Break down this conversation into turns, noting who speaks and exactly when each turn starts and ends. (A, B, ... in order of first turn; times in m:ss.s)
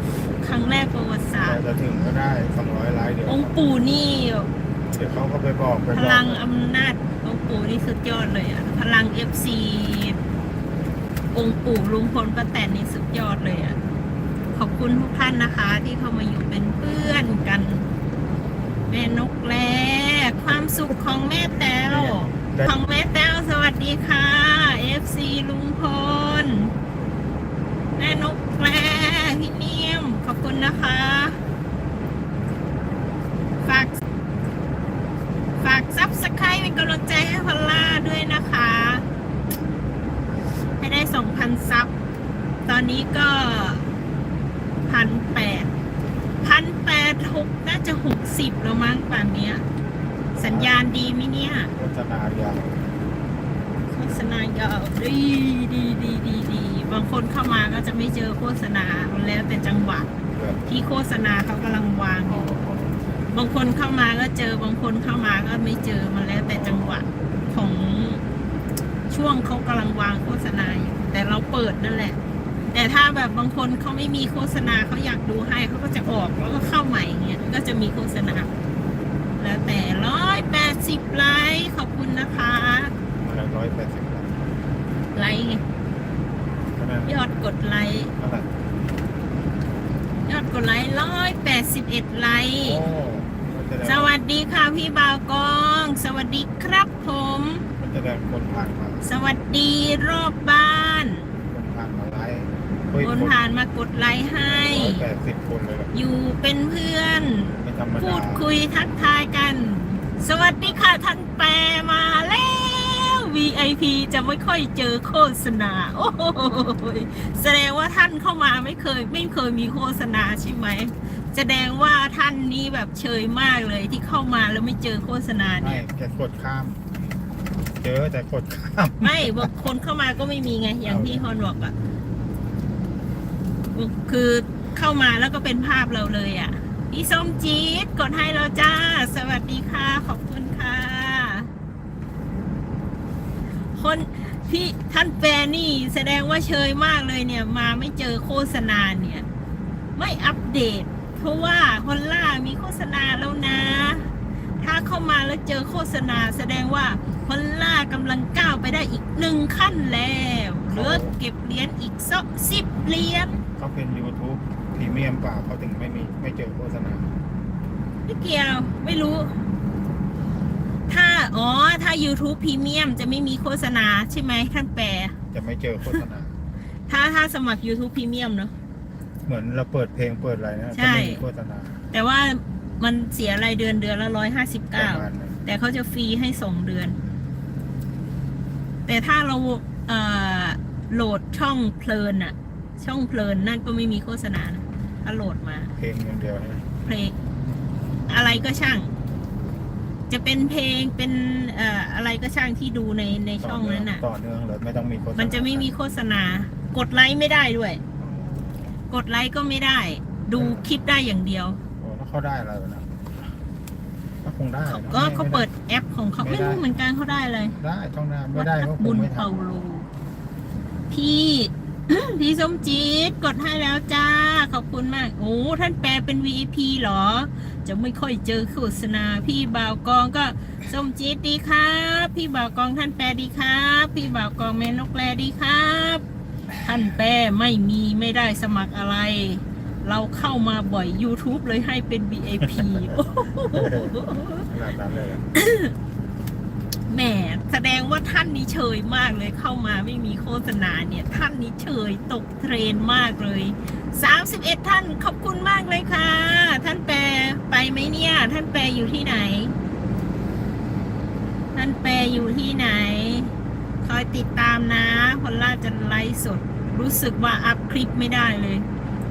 0:00.4-0:01.6 A
0:01.4-0:03.6 B
0:03.3-0:04.5 A
0:04.9-0:06.5 B
0:05.9-0:10.2 A
0:11.3-0:13.8 A
0:14.5-0:17.9 A
0:18.9-0:26.7 A
0:21.8-0:22.8 B
0:28.0-0:31.4 A
0:33.6-0:34.0 A
0:35.6-0:39.0 A
0:40.8-0:41.9 A
0:42.7-0:43.8 A
0:44.9-0:45.7 A
0:46.4-0:49.6 A
0:50.3-0:50.8 B
0:50.4-0:51.7 A
0:51.7-0:52.8 B
0:53.9-1:00.1 A
1:00.3-1:00.6 B
1:00.7-1:02.5 A
1:02.2-1:03.2 B
1:03.3-1:08.2 A
1:06.5-1:07.0 B
1:09.1-1:12.2 A
1:12.7-1:18.5 A
1:19.4-1:22.9 A
1:23.2-1:24.3 B
1:25.1-1:25.6 A
1:26.8-1:27.1 B
1:27.0-1:28.1 A
1:28.2-1:28.5 B
1:30.2-1:32.8 A
1:32.6-1:34.1 B
1:33.8-1:37.7 A
1:37.8-1:39.0 B
1:39.0-1:41.3 A
1:41.4-1:43.4 B
1:43.0-1:45.1 A
1:44.4-1:45.9 B
1:45.9-2:05.8 A
1:47.5-1:48.5 B
2:05.6-2:06.8 B
2:07.8-2:09.5 B
2:09.0-2:11.7 A
2:10.8-2:11.2 B
2:13.7-2:21.5 A
2:23.7-2:29.2 A
2:30.0-2:34.1 A
2:34.6-2:43.4 A
2:40.7-2:41.2 B
2:43.6-2:47.1 B
2:48.0-2:49.4 A
2:50.9-2:55.2 A
2:55.3-2:56.3 B
2:56.9-2:58.5 A
2:59.2-3:01.8 B
3:00.7-3:01.2 A
3:01.9-3:07.0 A
3:04.7-3:05.4 B
3:08.8-3:15.7 A
3:15.8-3:16.7 B
3:16.8-3:17.1 A
3:18.1-3:18.9 A
3:20.1-3:24.0 A
3:23.4-3:25.7 B
3:25.2-3:27.8 A
3:28.0-3:28.7 B
3:28.9-3:31.6 A
3:30.3-3:30.7 B
3:31.8-3:33.0 B
3:34.2-3:35.5 B
3:34.7-3:37.6 A
3:36.2-3:36.6 B
3:37.5-3:39.4 B
3:38.3-3:39.9 A
3:40.9-3:56.0 A
3:56.6-4:04.5 A
4:02.4-4:05.2 B
4:05.3-4:05.7 A
4:06.9-4:19.5 A
4:21.5-4:28.7 A